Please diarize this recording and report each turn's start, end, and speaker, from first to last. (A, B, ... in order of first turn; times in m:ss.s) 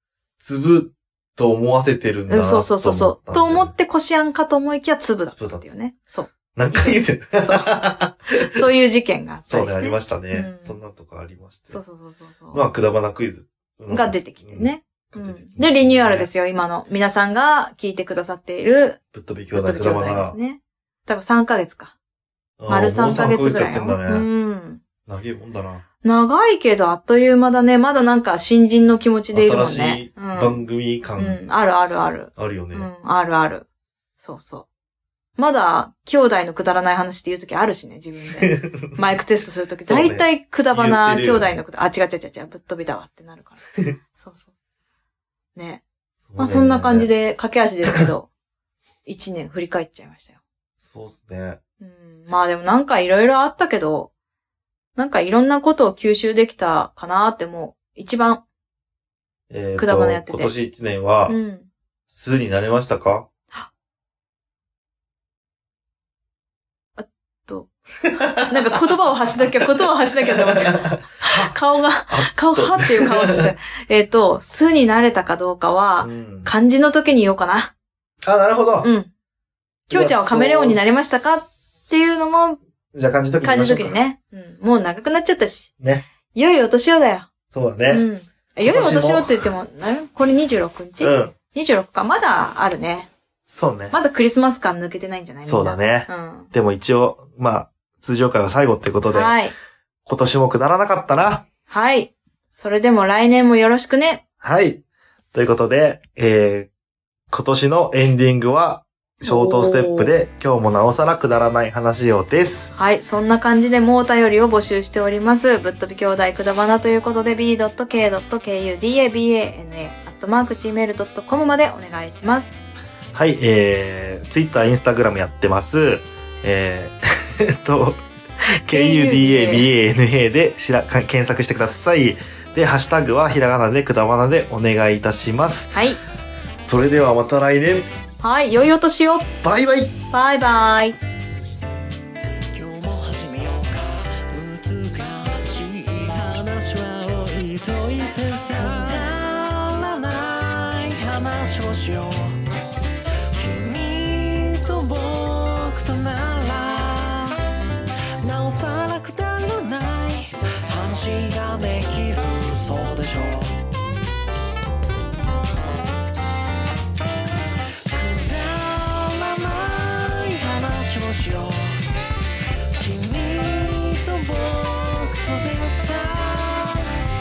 0:00.4-0:03.7 A
0:02.3-0:07.8 B
0:05.3-0:05.6 A
0:06.5-0:08.2 A
0:08.5-0:10.8 B
0:09.5-0:11.8 A
0:11.7-0:12.7 B
0:12.5-0:16.3 A
0:13.9-0:19.0 B
0:19.1-0:20.4 A
0:19.5-0:21.9 B
0:22.6-0:24.3 A
0:22.7-0:24.8 B
0:25.0-0:25.8 A
0:26.0-0:30.6 B
0:29.3-0:31.4 A
0:31.2-0:33.6 B
0:32.4-0:32.9 A
0:34.2-0:34.7 B
0:35.4-0:43.6 B
0:38.5-0:39.0 A
0:39.9-0:41.6 A
0:44.2-0:44.5 B
0:45.6-0:45.8 B
0:46.3-0:47.1 A
0:46.4-0:48.3 B
0:49.0-0:50.4 B
0:50.8-0:51.6 A
0:51.8-0:54.1 B
0:55.0-0:58.4 B
0:59.5-1:01.4 A
0:59.8-1:00.6 B
1:01.3-1:01.7 B
1:02.1-1:03.3 A
1:07.0-1:07.7 B
1:08.1-1:08.5 A
1:08.5-1:17.7 B
1:10.2-1:11.5 A
1:12.1-1:13.5 A
1:16.0-1:16.5 A
1:18.2-1:18.9 A
1:18.8-1:19.1 B
1:19.9-1:22.6 B
1:19.9-1:22.4 A
1:22.9-1:24.0 A
1:23.4-1:25.7 B
1:25.8-1:26.1 A
1:26.3-1:27.3 B
1:27.5-1:28.1 A
1:27.9-1:33.1 B
1:28.6-1:29.4 A
1:31.0-1:31.4 A
1:33.5-1:34.0 A
1:33.9-1:36.5 B
1:35.4-1:39.4 A
1:39.1-1:39.5 B
1:40.1-1:41.5 A
1:41.7-1:44.2 B
1:44.4-1:44.8 A
1:45.3-1:46.7 A
1:47.3-1:52.7 A
1:49.2-1:50.1 B
1:52.7-2:02.6 B
2:03.1-2:08.0 A
2:08.6-2:15.8 A
2:08.7-2:09.7 B
2:15.7-2:16.0 B
2:16.6-2:17.9 A
2:18.2-2:19.3 B
2:19.4-2:20.0 A
2:20.1-2:21.0 B
2:22.5-2:32.5 C
2:33.3-2:37.4 C
2:38.2-2:43.6 C
2:47.9-2:51.9 C
2:52.8-2:57.0 C